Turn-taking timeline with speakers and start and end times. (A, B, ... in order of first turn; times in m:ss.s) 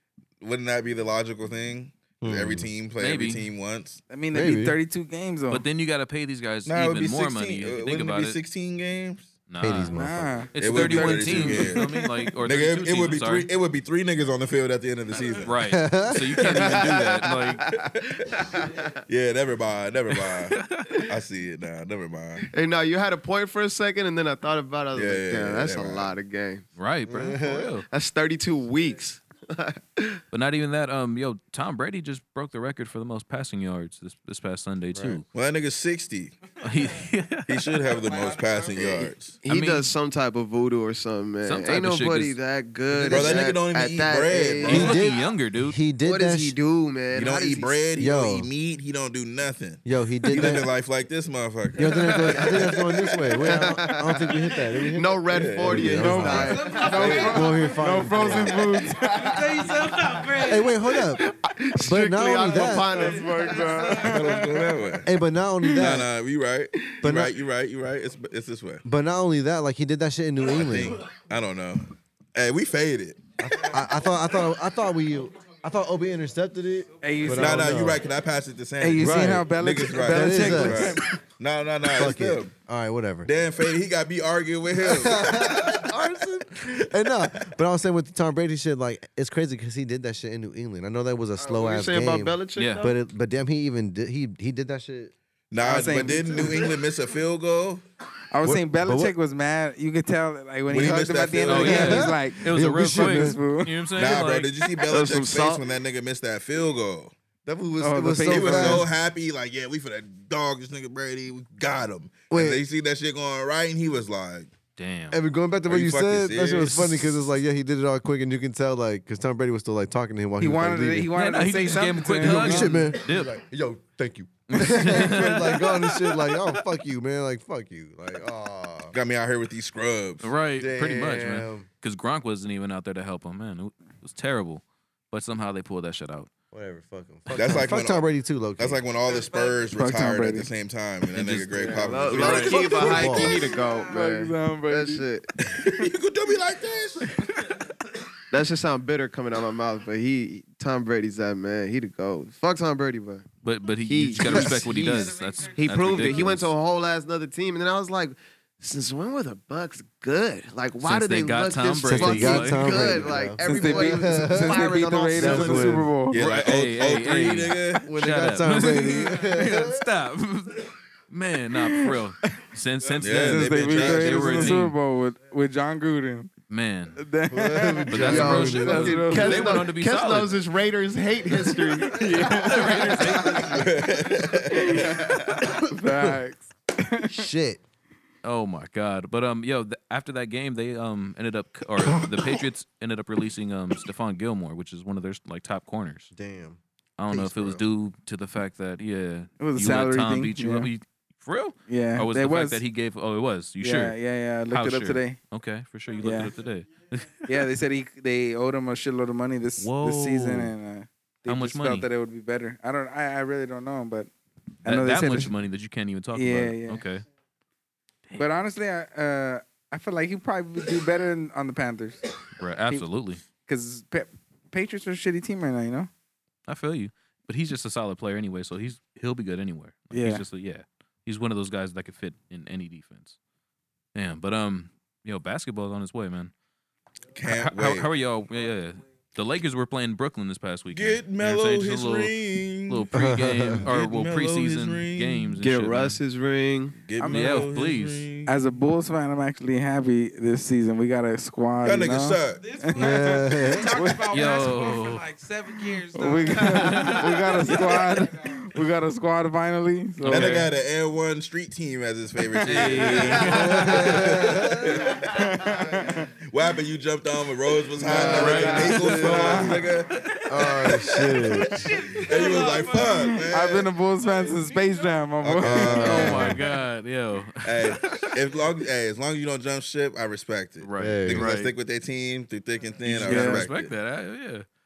0:00.4-0:04.0 A
0:02.2-0:02.7 B
0:03.0-0:03.4 C
0:04.1-0:05.6 D
0:04.3-0:04.8 B
0:05.5-0:08.4 C
0:06.6-0:09.3 A
0:09.5-0:13.5 C
0:09.6-0:10.5 B
0:09.9-0:12.1 D
0:10.6-0:15.6 A
0:15.4-0:17.6 C
0:15.6-0:16.4 B
0:16.3-0:22.5 A
0:16.6-0:18.8 E
0:20.2-0:21.0 C
0:22.4-0:26.6 E
0:24.9-0:26.1 A
0:26.8-0:27.9 C
0:27.1-0:27.7 B
0:27.9-0:30.2 E
0:30.3-0:35.3 C
0:34.9-0:35.2 B
0:35.3-0:36.4 A
0:36.6-0:37.6 C
0:37.5-0:39.4 A
0:37.9-0:38.9 F
0:38.8-0:45.0 E
0:39.4-0:39.9 C
0:41.4-0:42.4 C
0:42.9-0:43.5 B
0:43.1-0:45.0 A
0:44.6-0:45.8 C
0:44.6-0:46.6 B
0:46.0-0:47.8 E
0:47.1-0:53.2 A
0:48.0-0:48.5 B
0:49.8-0:50.7 B
0:51.8-0:58.6 B
0:52.2-0:52.6 E
0:53.4-0:54.2 E
0:54.9-0:56.9 E
0:55.3-0:56.3 A
0:55.8-0:59.1 D
0:56.4-1:01.1 F
0:56.9-0:57.4 A
0:59.0-0:59.4 E
1:00.4-1:03.1 B
1:01.2-1:04.1 E
1:02.5-1:04.7 D
1:04.0-1:05.1 A
1:05.0-1:06.1 B
1:05.6-1:06.0 D
1:05.7-1:08.8 A
1:07.0-1:07.3 B
1:08.8-1:11.0 B
1:10.5-1:13.7 A
1:13.4-1:18.0 B
1:17.0-1:17.8 D
1:17.3-1:22.5 A
1:18.8-1:21.1 D
1:19.0-1:19.5 B
1:20.0-1:21.0 B
1:21.8-1:23.3 B
1:23.2-1:26.2 A
1:24.7-1:35.1 B
1:27.1-1:27.5 A
1:31.4-1:33.0 E
1:32.6-1:32.9 C
1:35.5-1:37.8 A
1:35.6-1:36.7 D
1:38.3-1:43.8 D
1:38.4-1:39.1 B
1:40.7-1:42.1 A
1:41.5-1:44.5 C
1:41.5-1:43.4 B
1:43.9-1:47.1 A
1:44.9-1:45.6 E
1:47.4-1:48.9 B
1:47.8-1:48.8 D
1:48.2-1:54.5 A
1:52.3-1:52.6 B
1:54.8-1:55.2 C
1:55.1-2:01.1 B
1:55.7-1:57.0 A
1:56.7-1:57.0 C
2:00.4-2:02.8 D
2:01.1-2:03.4 C
2:02.2-2:08.9 B
2:04.5-2:06.5 C
2:08.9-2:10.3 A
2:10.2-2:16.3 C
2:10.6-2:11.7 B
2:16.5-2:18.8 B
2:17.3-2:23.3 A
2:19.0-2:19.7 F
2:19.8-2:20.5 D
2:21.1-2:22.8 C
2:21.6-2:25.3 E
2:22.8-2:23.5 B
2:23.5-2:25.0 D
2:23.6-2:23.9 F
2:25.4-2:27.5 A
2:28.3-2:33.2 E
2:33.4-2:36.5 C
2:33.8-2:45.9 E
2:34.4-2:36.3 F
2:40.8-2:43.2 C
2:41.8-2:45.9 B
2:43.4-2:46.2 D
2:46.1-2:47.9 A
2:46.1-2:54.7 C
2:47.8-2:49.8 B
2:53.0-2:54.6 A
2:53.1-2:56.3 D
2:56.5-2:57.0 C
2:57.0-2:59.7 D
2:57.3-2:59.1 B
2:57.9-3:00.5 C
2:58.0-3:03.3 E
3:01.8-3:03.2 D
3:02.0-3:03.8 C
3:03.5-3:05.4 A
3:04.5-3:07.3 D
3:07.0-3:07.6 B
3:08.2-3:16.1 C
3:12.0-3:12.2 B
3:16.1-3:17.6 B
3:17.0-3:24.0 C
3:19.4-3:20.7 D
3:21.7-3:22.6 D
3:23.6-3:25.2 D
3:24.5-3:27.4 C
3:26.0-3:26.4 D
3:27.3-3:34.1 D
3:29.6-3:30.5 C
3:31.3-3:31.9 C
3:34.6-3:35.3 D
3:34.6-3:37.0 C
3:36.1-3:36.8 D
3:38.2-3:42.1 D
3:42.4-3:43.2 C
3:43.4-3:45.9 D
3:46.5-3:53.2 C
3:49.9-3:50.2 D
3:54.0-3:56.3 C
3:57.1-3:57.9 A
3:57.3-4:06.0 C
4:00.7-4:02.9 A
4:02.9-4:03.7 B
4:03.6-4:05.3 A
4:05.4-4:06.8 E
4:06.8-4:08.3 A
4:07.0-4:07.5 D
4:07.0-4:08.1 C
4:08.3-4:13.0 D
4:11.6-4:12.4 A
4:12.3-4:18.3 F
4:12.8-4:13.7 B
4:13.7-4:14.1 D
4:14.1-4:15.0 C
4:15.9-4:20.4 D
4:16.3-4:17.7 C
4:20.0-4:20.5 C
4:20.0-4:25.1 A
4:22.3-4:23.5 D
4:22.4-4:24.2 C
4:23.3-4:24.8 B
4:25.0-4:26.1 D
4:26.2-4:30.0 A
4:27.8-4:29.5 B
4:27.8-4:29.7 D
4:28.0-4:29.1 C
4:30.3-4:31.7 B
4:30.6-4:31.1 A
4:31.0-4:33.4 F
4:32.0-4:33.7 A
4:33.0-4:36.4 D
4:34.0-4:35.0 F
4:35.2-4:36.4 A
4:35.4-4:36.4 B
4:35.7-4:38.1 C
4:37.4-4:43.7 A
4:40.6-4:41.5 C
4:40.8-4:41.3 B
4:42.8-4:44.4 C
4:43.0-4:43.4 D